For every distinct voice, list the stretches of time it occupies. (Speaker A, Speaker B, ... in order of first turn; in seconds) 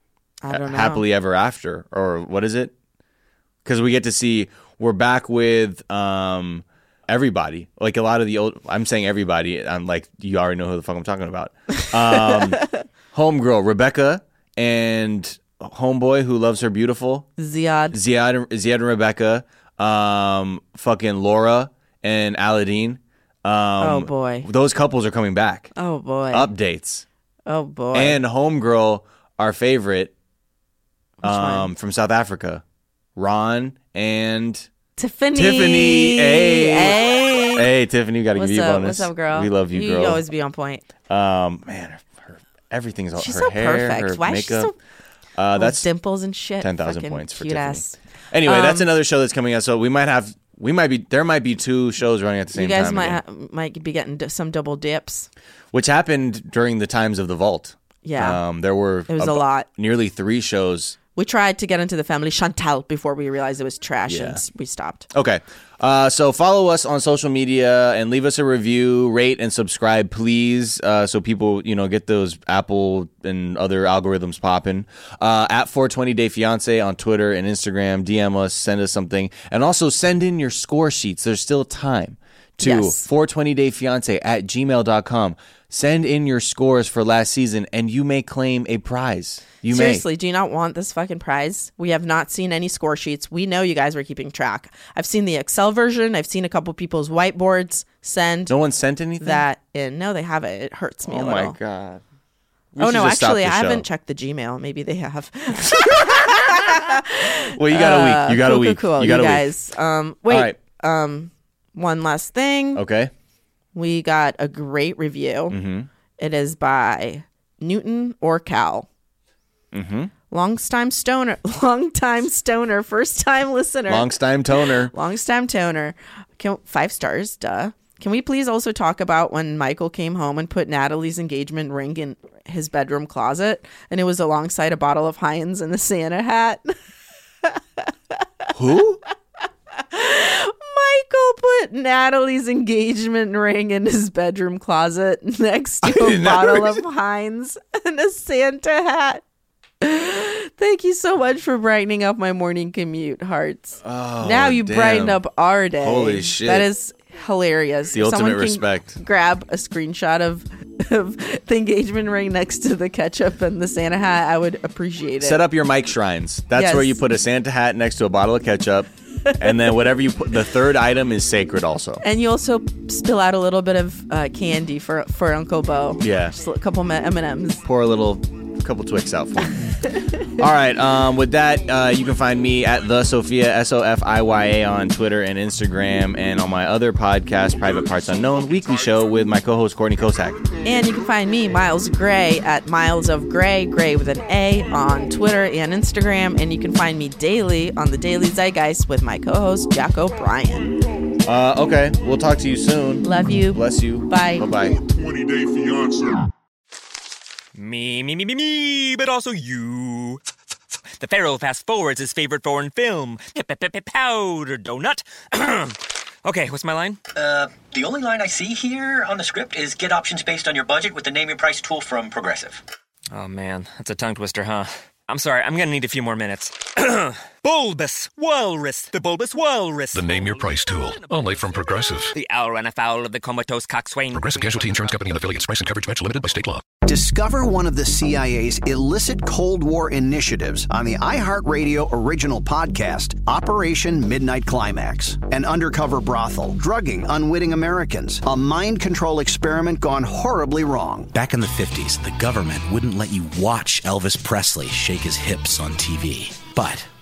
Speaker A: 0.4-1.1, 17.4-18.0, 23.8-24.5, 25.8-26.5, 27.4-28.2, 31.2-31.7, 35.0-37.7, 38.3-40.9, 43.2-44.7, 45.6-48.9, 52.5-55.3, 58.0-58.4, 59.1-59.7, 61.1-65.1, 82.6-83.0, 89.6-98.5, 99.2-101.6, 102.8-112.8, 113.7-115.6, 116.2-118.9, 120.3-136.7, 139.8-149.2, 149.8-165.4, 166.5-167.0, 172.0-177.6, 190.6-200.7, 203.0-204.5
Speaker B: 0.5-2.7, 3.6-17.3, 17.9-25.7, 26.3-27.0, 27.9-30.1, 31.2-32.6, 33.1-34.7, 35.3-40.2, 41.1-44.7, 45.3-45.9, 46.6-53.2, 55.7-61.0, 64.1-64.4, 65.1-90.0, 98.5-99.4, 101.0-102.0, 102.7-103.8, 105.6-106.9, 107.5-109.5, 110.3-110.6, 112.7-113.1, 115.5-115.9, 119.7-120.1, 123.9-124.9, 138.5-139.0, 145.8-146.8, 153.8-155.2, 155.8-156.7, 157.9-159.0, 165.2-172.0, 176.0-176.3, 177.6-179.6, 180.4-190.4, 201.2-204.8
Speaker C: 187.6-189.2, 190.1-190.5, 204.6-206.3
Speaker D: 207.5-210.2, 211.0-217.0, 223.1-231.4, 232.1-234.4
Speaker E: 217.1-222.6
Speaker F: 229.9-232.1, 234.1-236.6
Speaker G: 236.8-251.1
Speaker H: 251.2-256.3